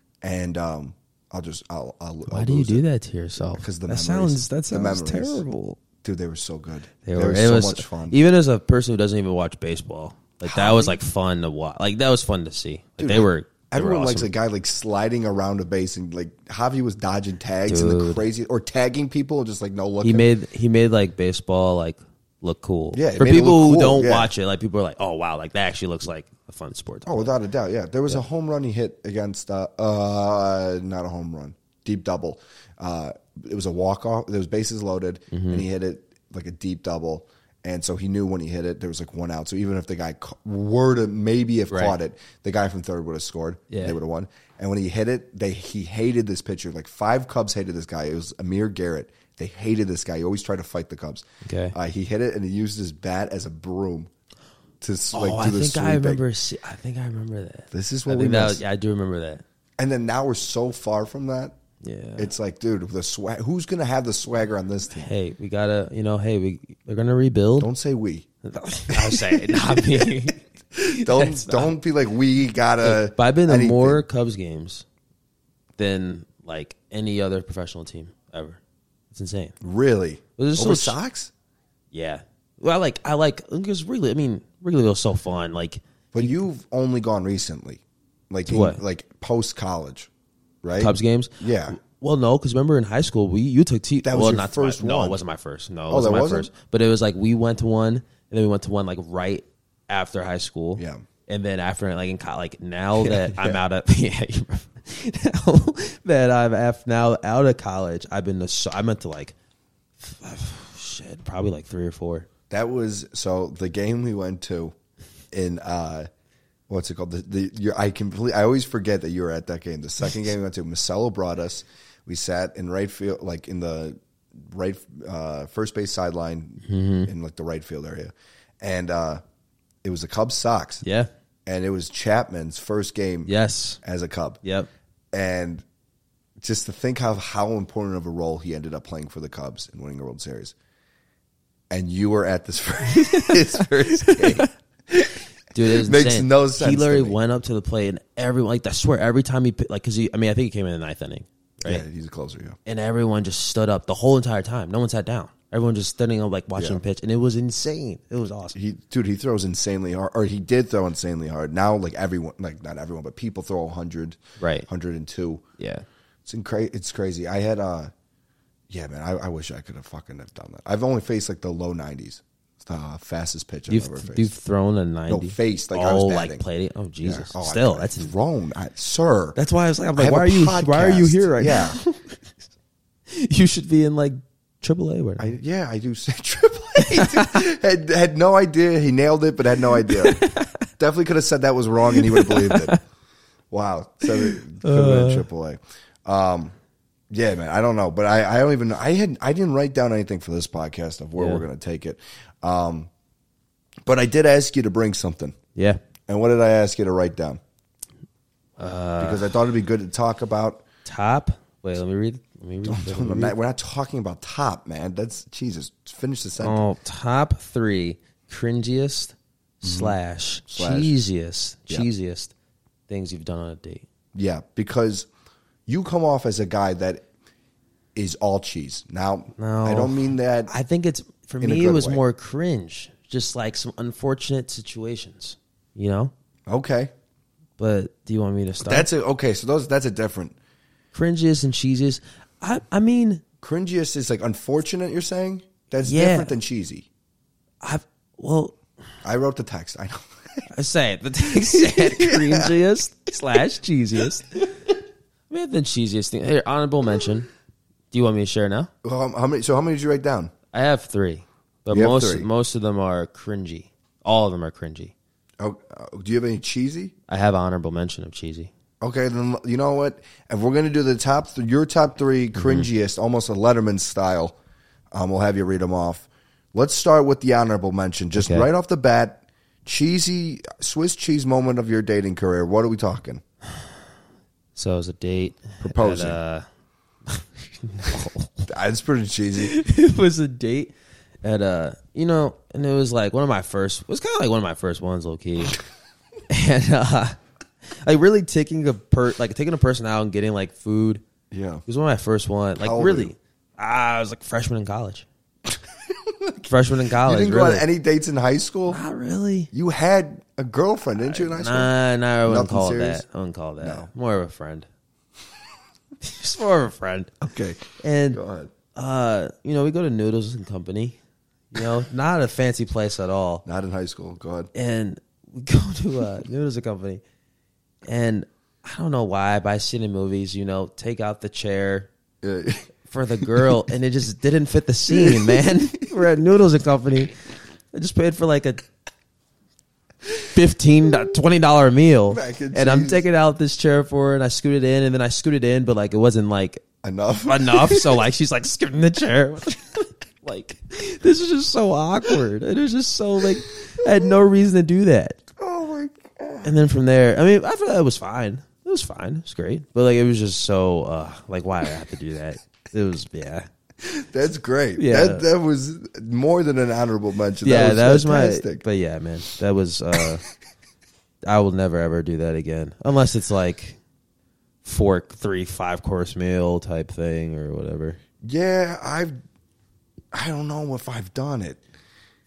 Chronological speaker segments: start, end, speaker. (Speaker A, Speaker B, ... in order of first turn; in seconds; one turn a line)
Speaker A: 0.2-2.8
Speaker B: 2.3-5.8
Speaker A: 3.5-5.4
Speaker A: 6.0-8.2
Speaker B: 7.0-14.3
Speaker A: 10.4-11.0
Speaker A: 13.0-20.3
Speaker B: 17.7-18.2
Speaker B: 20.0-27.3
Speaker A: 22.9-24.3
Speaker A: 27.1-54.1
Speaker B: 35.3-35.6
Speaker B: 41.7-42.0
Speaker B: 43.7-44.0
Speaker B: 51.4-51.7
Speaker A: 54.8-56.2
Speaker B: 55.1-59.4
Speaker A: 57.7-58.6
Speaker A: 59.8-61.5
Speaker B: 61.8-62.3
Speaker A: 62.1-65.1
Speaker B: 65.0-67.7
Speaker A: 67.6-68.2
Speaker B: 68.4-71.7
Speaker A: 68.9-70.2
Speaker A: 70.7-74.0
Speaker B: 72.8-74.8
Speaker B: 75.8-78.6
Speaker B: 79.1-79.5
Speaker A: 79.6-81.3
Speaker B: 80.4-81.0
Speaker B: 81.9-86.4
Speaker A: 86.1-90.1
Speaker B: 88.5-88.8
Speaker A: 90.6-91.8
Speaker B: 90.8-109.3
Speaker A: 94.0-95.2
Speaker A: 95.9-96.5
Speaker A: 100.8-101.0
Speaker A: 103.0-103.6
Speaker B: 110.0-112.3
Speaker A: 112.5-114.7
Speaker A: 115.3-116.1
Speaker A: 116.7-129.2
Speaker B: 126.6-127.1
Speaker A: 129.8-130.8
Speaker B: 130.8-131.1
Speaker A: 131.4-134.4
Speaker B: 133.3-133.8
Speaker B: 134.4-134.7
Speaker A: 135.1-135.6
Speaker A: 136.4-140.5
Speaker A: 141.7-144.5
Speaker B: 142.9-144.9
Speaker B: 145.5-151.8
Speaker A: 145.7-147.2
Speaker A: 151.6-152.6
Speaker B: 152.7-158.6
Speaker A: 158.5-165.4
Speaker B: 164.4-164.7
Speaker B: 165.6-165.8
Speaker A: 166.2-167.9
Speaker A: 168.7-174.3
Speaker B: 173.7-178.1
Speaker A: 175.1-176.4
Speaker A: 177.0-179.4
Speaker B: 179.3-182.2
Speaker A: 179.9-181.8
Speaker B: 183.1-185.3
Speaker A: 185.2-192.8
Speaker B: 186.8-187.4
Speaker B: 189.9-190.5
Speaker B: 191.9-192.8
Speaker A: 193.5-196.5
Speaker B: 194.2-195.2
Speaker A: 197.1-202.9
Speaker B: 201.2-201.4
Speaker A: 203.8-205.4
Speaker B: 205.5-205.8
Speaker A: 206.1-207.4
Speaker B: 208.6-209.3
Speaker A: 209.0-210.6
Speaker B: 210.8-213.3
Speaker A: 212.6-216.6
Speaker B: 216.4-222.3
Speaker A: 219.6-220.0
Speaker A: 220.5-221.0
Speaker B: 222.9-223.8
Speaker A: 224.1-225.1
Speaker A: 225.7-227.0
Speaker A: 227.9-230.5
Speaker B: 229.4-236.1
Speaker A: 231.4-232.0
Speaker A: 236.5-236.9
Speaker B: 237.6-238.9
Speaker A: 238.6-240.3
Speaker B: 240.9-243.2
Speaker A: 243.4-246.9
Speaker B: 245.8-246.4
Speaker B: 247.6-248.6
Speaker A: 249.0-250.4
Speaker B: 250.5-254.5
Speaker A: 251.4-252.5
Speaker B: 255.3-257.3
Speaker B: 257.9-258.7
Speaker A: 258.8-260.3
Speaker B: 260.5-264.9
Speaker A: 261.7-262.3
Speaker A: 265.4-266.9
Speaker B: 267.1-268.5
Speaker A: 268.8-274.4
Speaker B: 272.4-272.7
Speaker A: 274.9-283.2
Speaker B: 278.1-278.5
Speaker B: 284.5-286.4
Speaker A: 285.6-286.2
Speaker B: 287.1-288.4
Speaker A: 288.5-289.5
Speaker B: 289.4-295.5
Speaker B: 296.3-297.2
Speaker B: 297.7-301.0
Speaker A: 301.3-301.6
Speaker B: 301.7-305.1
Speaker A: 302.6-303.1
Speaker A: 306.1-306.5
Speaker B: 306.5-307.6
Speaker A: 307.0-308.8
Speaker B: 308.7-309.5
Speaker A: 309.5-311.7
Speaker B: 311.0-314.7
Speaker A: 312.2-313.0
Speaker A: 313.6-313.9
Speaker B: 316.0-317.1
Speaker A: 317.2-318.5
Speaker B: 317.8-318.2
Speaker B: 318.7-321.0
Speaker B: 321.5-323.4
Speaker A: 323.4-324.5
Speaker B: 324.5-327.0
Speaker B: 327.8-331.9
Speaker A: 332.2-332.7
Speaker B: 332.9-337.1
Speaker A: 334.9-335.9
Speaker B: 337.7-338.6
Speaker B: 340.3-346.6
Speaker A: 342.1-343.0
Speaker A: 346.8-348.0
Speaker B: 347.2-355.2
Speaker A: 353.6-354.0
Speaker A: 355.4-356.5
Speaker B: 356.4-363.5
Speaker A: 363.8-368.6
Speaker B: 364.8-365.2
Speaker B: 367.4-370.2
Speaker B: 371.3-373.8
Speaker B: 374.6-378.0
Speaker A: 378.2-379.1
Speaker A: 380.1-381.6